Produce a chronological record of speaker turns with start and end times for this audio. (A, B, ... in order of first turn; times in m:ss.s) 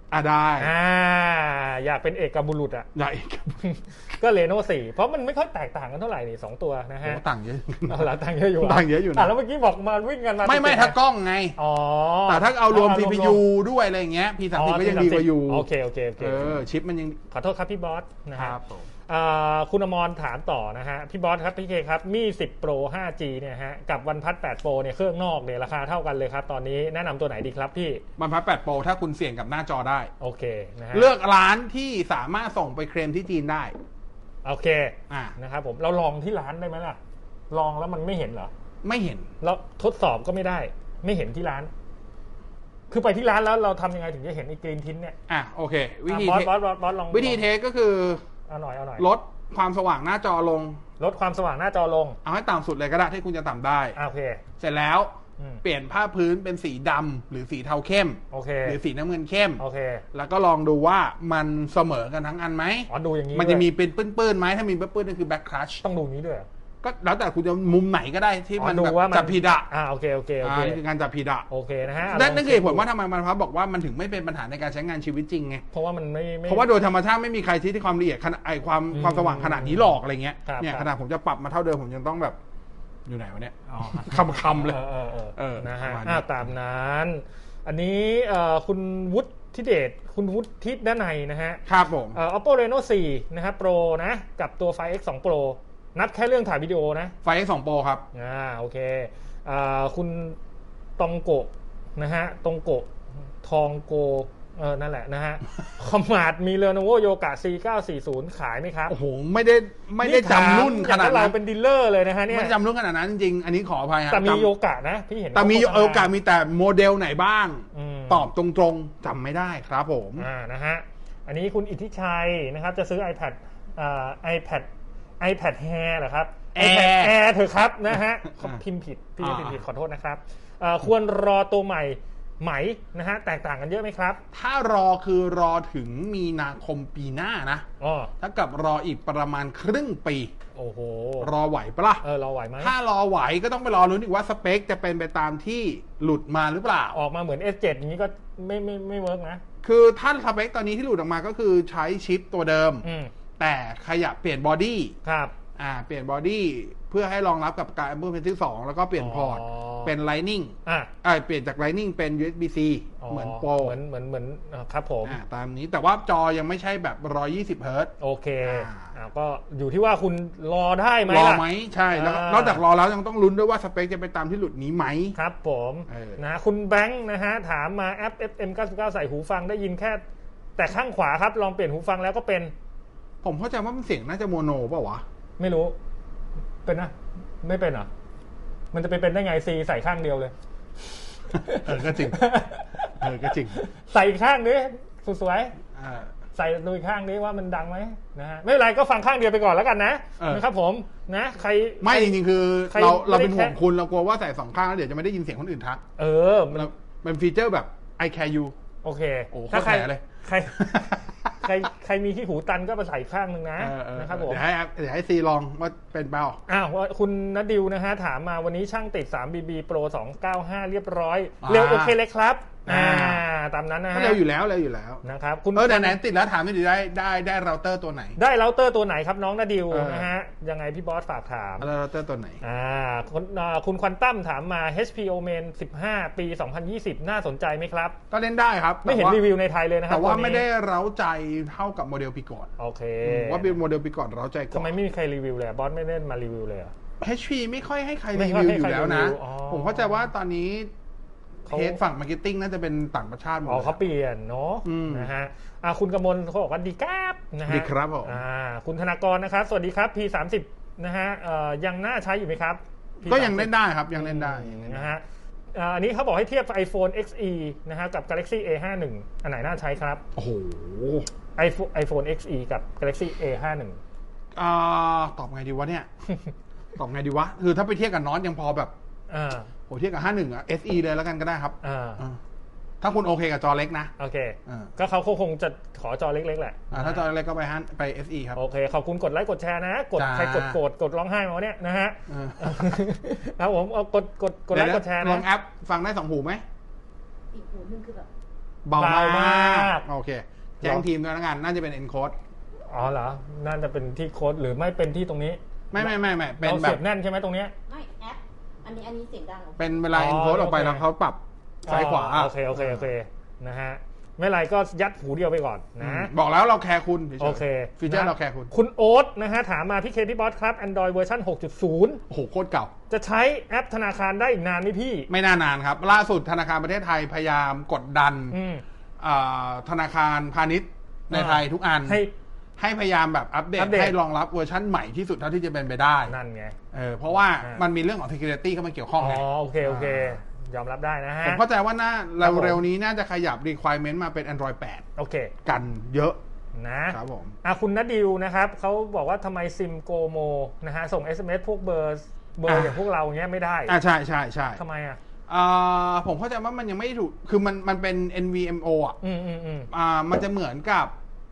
0:00.1-0:00.7 A
0:00.6-0:02.9 B
0:02.9-0:03.6 A
0:03.6-0:07.2 B
0:07.0-0:09.3 A
0:07.9-0:11.0 B
0:10.4-0:11.6 A
0:11.6-0:13.4 B
0:12.3-0:15.7 A
0:14.5-0:16.6 B
0:16.2-0:17.2 A
0:17.3-0:18.6 B
0:18.4-0:18.9 A
0:19.1-0:28.0 B
0:28.2-0:30.1 A
0:30.2-0:31.1 B
0:30.9-0:33.7 A
0:34.4-0:37.0 B
0:35.1-0:35.3 A
0:37.5-0:38.5 B
0:38.8-0:39.3 A
0:39.4-0:41.7 B
0:42.9-0:45.2 B
0:45.3-0:46.5 A
0:46.1-0:47.4 B
0:47.1-0:48.2 A
0:48.5-0:49.0 B
0:49.0-0:50.8 A
0:51.0-0:52.2 B
0:52.2-0:54.0 A
0:54.0-0:54.4 B
0:54.6-0:59.6 A
0:55.4-0:55.6 B
0:58.3-0:58.8 B
0:59.6-1:00.0 B
1:00.1-1:05.8 A
1:02.9-1:03.7 B
1:05.8-1:06.5 B
1:06.8-1:09.7 A
1:08.6-1:10.8 B
1:10.4-1:11.5 A
1:11.5-1:12.8 B
1:12.1-1:15.6 A
1:15.7-1:16.7 B
1:16.5-1:22.4 A
1:18.9-1:19.9 B
1:20.4-1:20.9 B
1:23.1-1:24.8 A
1:23.7-1:37.1 B
1:25.4-1:26.4 A
1:31.6-1:32.2 A
1:37.2-1:38.0 A
1:38.1-1:40.4 B
1:41.0-1:42.9 B
1:43.4-1:49.0 B
1:48.9-1:51.3 A
1:50.0-1:52.5 B
1:52.3-1:54.5 A
1:54.1-1:56.1 B
1:55.3-2:00.3 A
1:57.7-1:58.3 B
2:00.2-2:04.7 B
2:05.2-2:14.2 B
2:06.5-2:07.2 A
2:09.2-2:09.6 A
2:14.3-2:17.6 A
2:17.8-2:18.1 B
2:18.2-2:20.3 A
2:20.5-2:21.3 B
2:21.2-2:22.0 A
2:22.0-2:22.7 B
2:22.6-2:27.0 A
2:26.9-2:29.4 B
2:29.6-2:32.8 A
2:32.8-2:33.1 B
2:33.4-2:35.0 A
2:35.0-2:35.3 B
2:35.6-2:43.8 A
2:39.0-2:39.9 B
2:40.6-2:40.9 B
2:43.0-2:45.2 B
2:45.0-2:47.9 A
2:48.0-2:52.6 B
2:48.4-2:48.9 A
2:51.1-2:55.2 A
2:55.2-3:00.0 B
2:55.9-2:56.2 A
3:00.6-3:02.5 B
3:03.2-3:05.0 A
3:05.4-3:05.7 B
3:06.6-3:07.9 B
3:08.7-3:10.3 B
3:11.3-3:12.2 A
3:11.3-3:15.5 B
3:13.0-3:13.6 A
3:15.7-3:16.1 A
3:16.3-3:23.6 B
3:20.2-3:20.4 A
3:21.8-3:25.8 A
3:26.0-3:26.7 B
3:26.5-3:28.5 A
3:28.8-3:34.4 B
3:29.3-3:30.0 A
3:30.5-3:31.5 A
3:33.6-3:36.4 A
3:36.5-3:44.2 B
3:41.4-3:42.0 A
3:42.6-3:43.2 A
3:43.9-3:45.0 A
3:45.0-3:46.0 B
3:45.5-3:48.2 A
3:48.2-3:51.7 B
3:49.7-3:50.1 A
3:51.6-3:52.4 A
3:52.4-3:58.0 B
3:58.1-3:59.2 A
3:58.8-4:00.4 B
3:59.9-4:02.5 A
4:02.6-4:03.6 B
4:03.0-4:04.7 A
4:04.5-4:06.7 B
4:07.0-4:10.7 A
4:08.1-4:09.9 B
4:11.5-4:13.8 A
4:11.5-4:11.8 B
4:13.4-4:25.0 B
4:14.6-4:15.1 A
4:17.5-4:18.2 A
4:23.0-4:24.9 A
4:25.5-4:30.0 B
4:30.1-4:31.1 A
4:31.4-4:33.8 B
4:34.3-4:35.9 A
4:36.8-4:38.7 A
4:39.1-4:39.5 B
4:39.7-4:42.2 A
4:41.6-4:42.0 B
4:42.8-4:43.9 A
4:44.0-4:47.0 B
4:44.4-4:44.7 A
4:46.7-4:48.4 A
4:48.4-4:55.2 B
4:50.0-4:50.6 A
4:52.1-4:52.8 A
4:54.5-4:56.4 A
4:57.3-4:58.1 C
4:58.6-5:02.2 A
4:58.8-4:59.8 B
5:02.7-5:07.5 B
5:05.7-5:06.8 A
5:07.7-5:09.8 C
5:09.6-5:12.8 A
5:09.9-5:10.8 B
5:11.6-5:16.1 B
5:15.8-5:18.5 A
5:17.2-5:22.0 B
5:22.1-5:22.7 A
5:22.9-5:25.1 B
5:25.1-5:28.4 A
5:28.3-5:28.6 B
5:29.0-5:32.0 A
5:31.1-5:32.1 B
5:32.6-5:36.1 A
5:33.6-5:34.0 B
5:36.1-5:36.6 B
5:36.7-5:40.2 A
5:39.0-5:41.4 B
5:41.2-5:44.8 A
5:42.2-5:42.6 B
5:45.0-5:45.3 B
5:45.4-5:46.2 A
5:46.5-5:53.8 B
5:46.9-5:47.4 A
5:52.5-5:52.8 A
5:53.7-5:54.6 A
5:54.6-5:55.0 B
5:55.3-5:59.0 A
5:59.0-5:59.7 B
5:59.7-6:00.9 A